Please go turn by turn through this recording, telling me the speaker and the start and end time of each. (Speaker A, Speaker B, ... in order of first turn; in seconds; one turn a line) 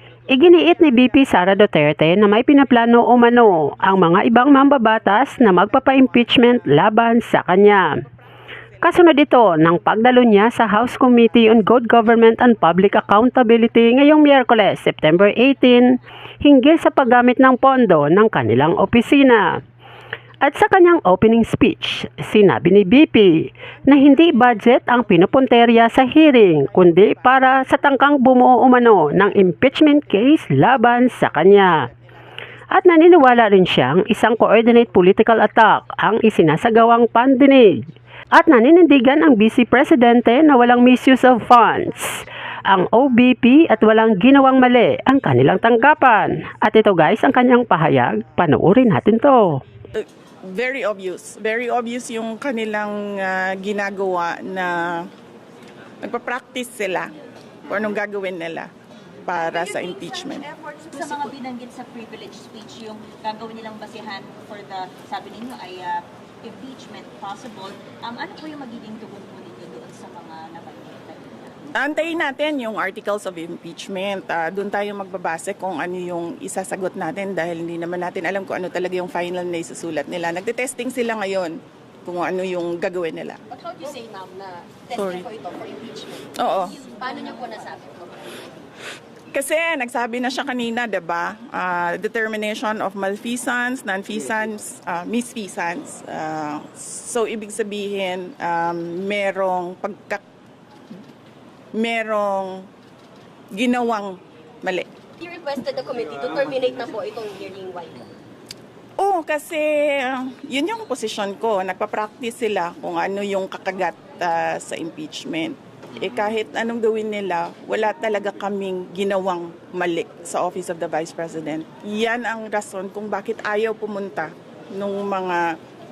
Speaker A: 0.3-8.0
Speaker A: 8.8-19.6
Speaker A: 20.4-31.8
Speaker A: 32.7-49.6
Speaker B: 49.9-55.1
Speaker B: 56.0-57.1
Speaker B: 57.7-58.7
Speaker B: 59.3-60.5
Speaker C: 59.4-71.6
Speaker B: 71.7-83.4
Speaker D: 83.5-88.6
Speaker B: 85.0-85.3
Speaker B: 86.4-86.8
Speaker C: 86.5-87.6
Speaker B: 89.3-100.2
Speaker B: 101.8-102.7
Speaker B: 103.5-104.9
Speaker D: 105.2-108.1
Speaker B: 109.0-125.6